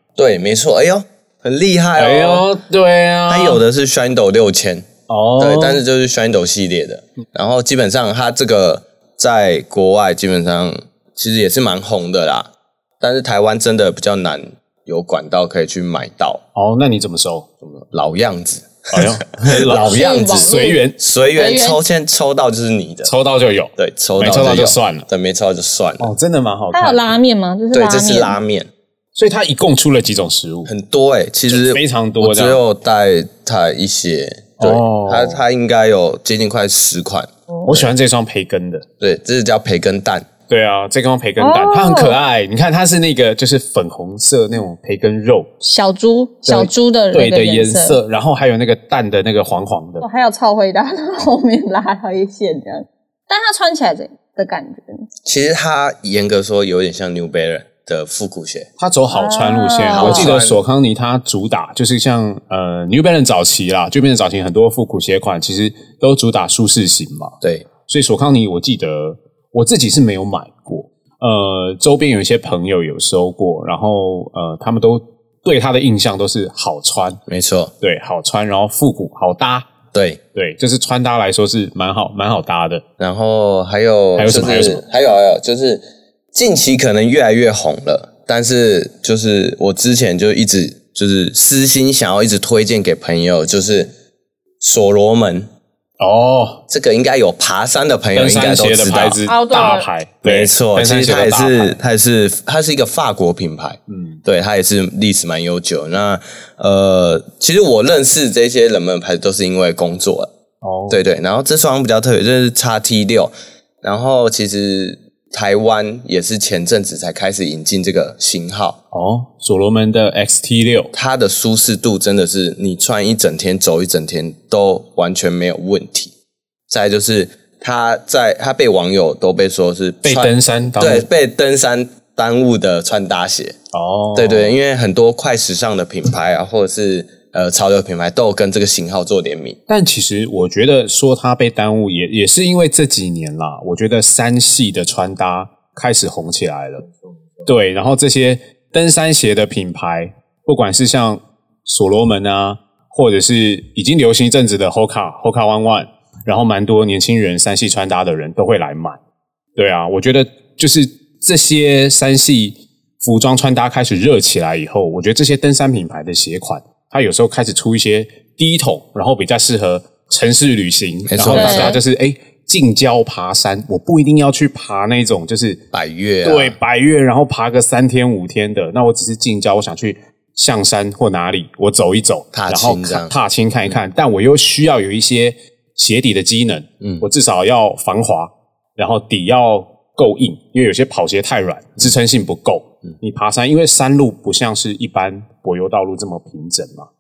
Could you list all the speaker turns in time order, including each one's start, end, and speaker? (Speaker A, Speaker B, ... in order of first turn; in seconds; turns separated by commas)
Speaker A: 0.2-2.4, Speaker B: 2.0-3.6, Speaker A: 3.3-12.5, Speaker B: 5.1-5.8, Speaker A: 13.0-16.4, Speaker B: 16.6-17.5, Speaker A: 17.6-23.1, Speaker B: 18.9-20.9, Speaker C: 19.9-20.8, Speaker C: 21.4-21.8, Speaker B: 23.1-25.1, Speaker A: 23.8-26.1, Speaker B: 26.0-27.1, Speaker C: 26.7-28.4, Speaker A: 27.7-28.7, Speaker B: 29.2-30.7, Speaker A: 30.7-37.9, Speaker B: 31.5-32.6, Speaker B: 34.6-35.4, Speaker B: 37.7-38.9, Speaker A: 39.0-40.3, Speaker B: 40.5-45.5, Speaker C: 41.4-42.2, Speaker C: 45.6-48.0, Speaker B: 46.5-50.0, Speaker C: 50.0-55.0, Speaker A: 55.2-58.7, Speaker B: 58.8-77.2, Speaker C: 59.1-60.3, Speaker A: 59.9-60.6, Speaker A: 67.4-67.7, Speaker A: 77.3-77.7, Speaker B: 77.8-79.7, Speaker A: 79.9-80.2, Speaker B: 80.3-82.8, Speaker A: 83.0-93.9, Speaker B: 84.2-84.8, Speaker A: 94.6-95.5, Speaker B: 96.0-96.6, Speaker A: 96.7-99.2, Speaker B: 98.2-101.8, Speaker C: 99.2-99.9, Speaker A: 100.2-110.3, Speaker B: 103.9-104.2, Speaker B: 110.6-111.0, Speaker A: 110.9-118.8, Speaker B: 118.9-120.9, Speaker A: 120.9-126.1, Speaker A: 126.7-133.6, Speaker B: 130.0-131.1, Speaker B: 133.7-134.5, Speaker A: 134.2-139.6, Speaker B: 139.7-146.9, Speaker B: 147.4-159.0, Speaker B: 159.6-175.6, Speaker A: 171.1-171.8, Speaker C: 171.3-171.8, Speaker A: 175.7-176.6, Speaker B: 176.2-196.9, Speaker A: 182.3-183.1